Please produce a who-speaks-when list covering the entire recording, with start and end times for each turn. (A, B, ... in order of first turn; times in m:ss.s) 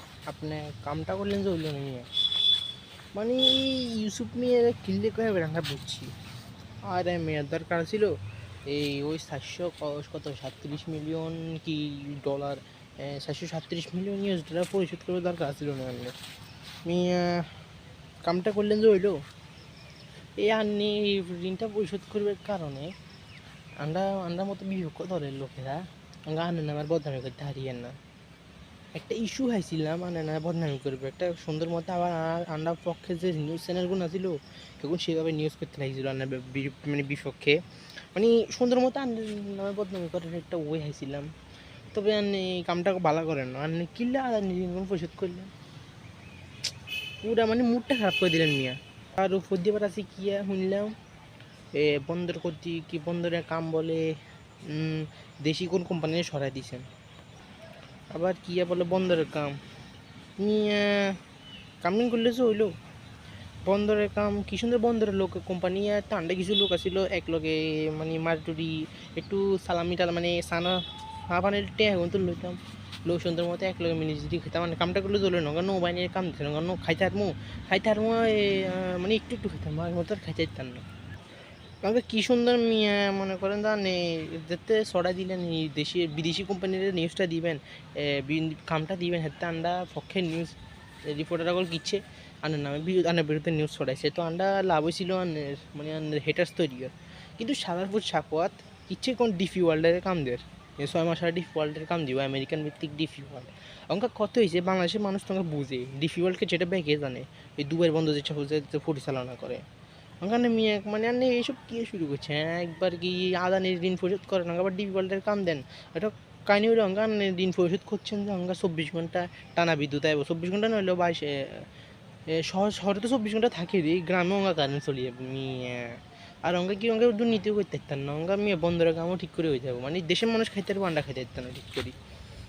0:00.3-0:02.1 A
0:03.1-0:06.1 A
0:06.8-0:08.2 A
0:08.7-0:16.2 A
0:16.8-0:17.6 A
0:18.2-0:19.2 A
0:20.4-0:22.9 A
0:23.8-0:28.0 A
0:28.9-0:37.6 A
0:38.1-0:41.3 A
0:41.9-0:45.5 A
0:47.2-0:51.0 A
0:51.7-0:56.9 A
0:58.1-0:59.6 A
1:00.4-1:01.2 A
1:01.8-1:02.8 A
1:03.6-1:20.9 A
1:21.8-1:49.6 A
1:50.2-2:01.7 A
2:02.3-2:12.0 A